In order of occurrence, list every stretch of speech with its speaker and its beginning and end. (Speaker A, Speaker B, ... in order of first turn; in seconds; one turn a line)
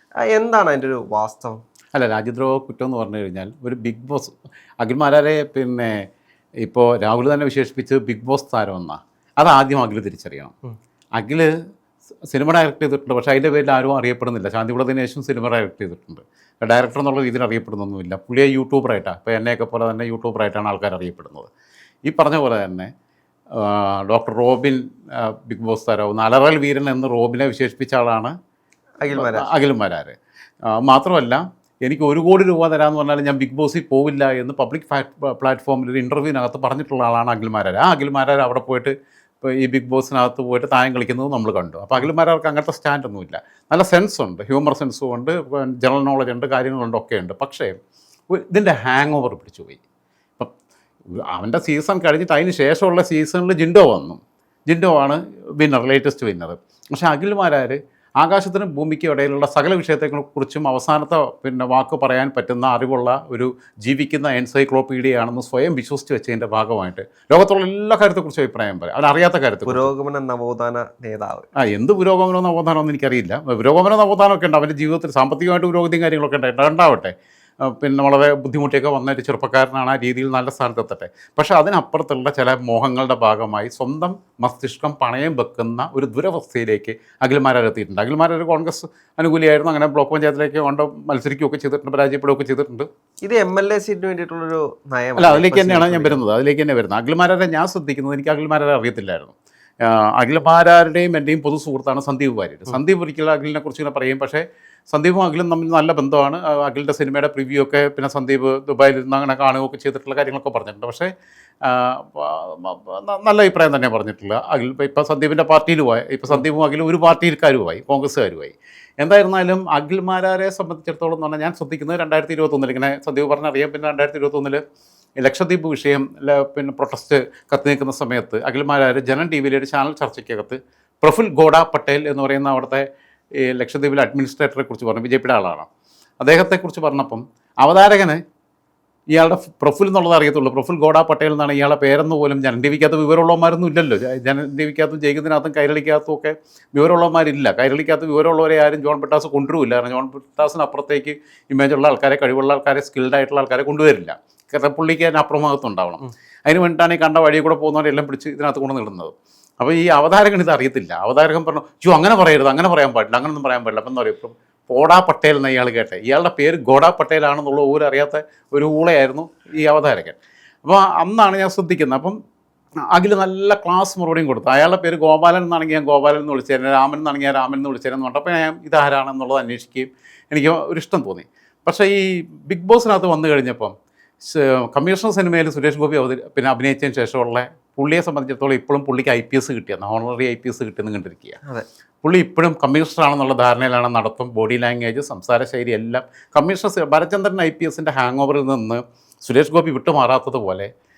Speaker A: 0.2-1.6
Speaker B: 1.9-5.9
Speaker B: 6.6-10.5
Speaker B: 11.2-11.5
Speaker B: 12.3-21.5
Speaker B: 22.1-22.9
Speaker B: 23.5-28.3
Speaker A: 29.0-29.5
Speaker B: 29.1-30.1
Speaker B: 30.7-47.7
Speaker B: 48.3-49.8
Speaker B: 51.1-69.9
Speaker A: 69.7-71.5
Speaker B: 71.6-77.1
Speaker B: 77.6-92.9
Speaker A: 93.2-96.2
Speaker B: 95.2-111.1
Speaker B: 111.6-124.6
Speaker B: 125.2-132.8
Speaker B: 133.4-135.7
Speaker B: 136.2-138.2
Speaker B: 139.1-172.2
Speaker B: 172.9-183.7
Speaker B: 184.3-191.4
Speaker B: 192.0-200.7